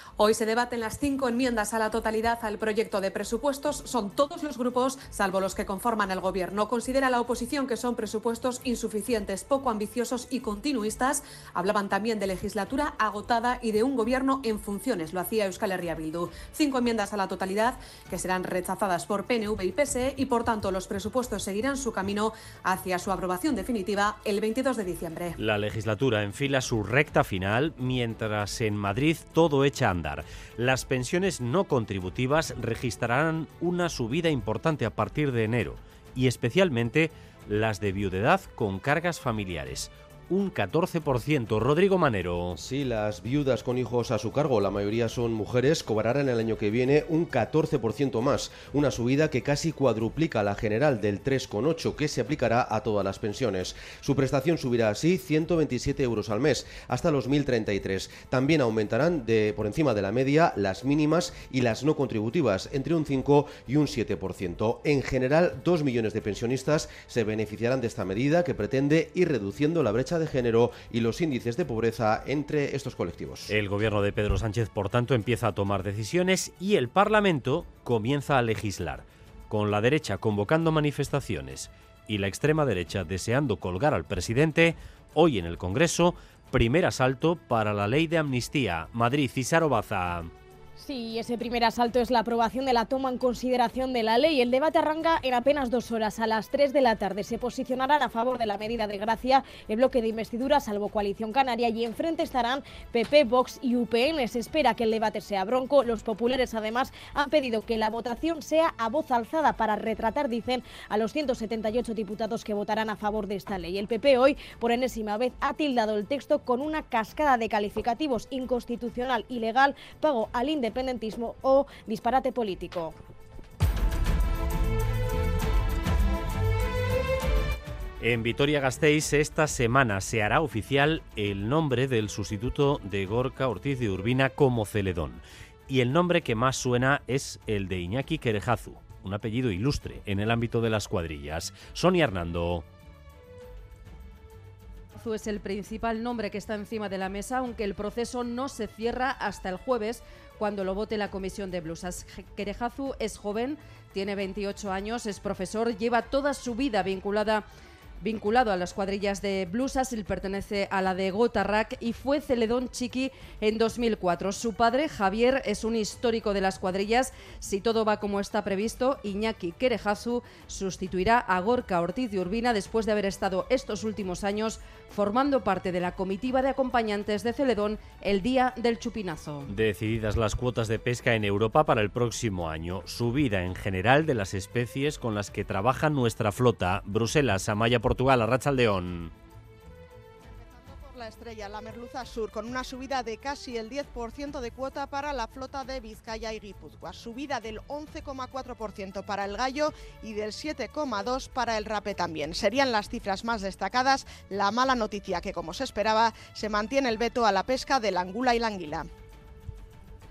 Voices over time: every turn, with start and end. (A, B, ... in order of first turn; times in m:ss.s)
0:00.2-0:25.4 A
0:25.4-0:42.6 B
0:42.6-1:13.5 C
1:13.5-1:30.3 B
1:30.8-2:03.0 D
2:08.0-2:22.7 B
2:25.0-2:37.5 E
2:38.0-2:59.5 E
2:59.5-3:09.1 B
3:10.3-3:28.9 F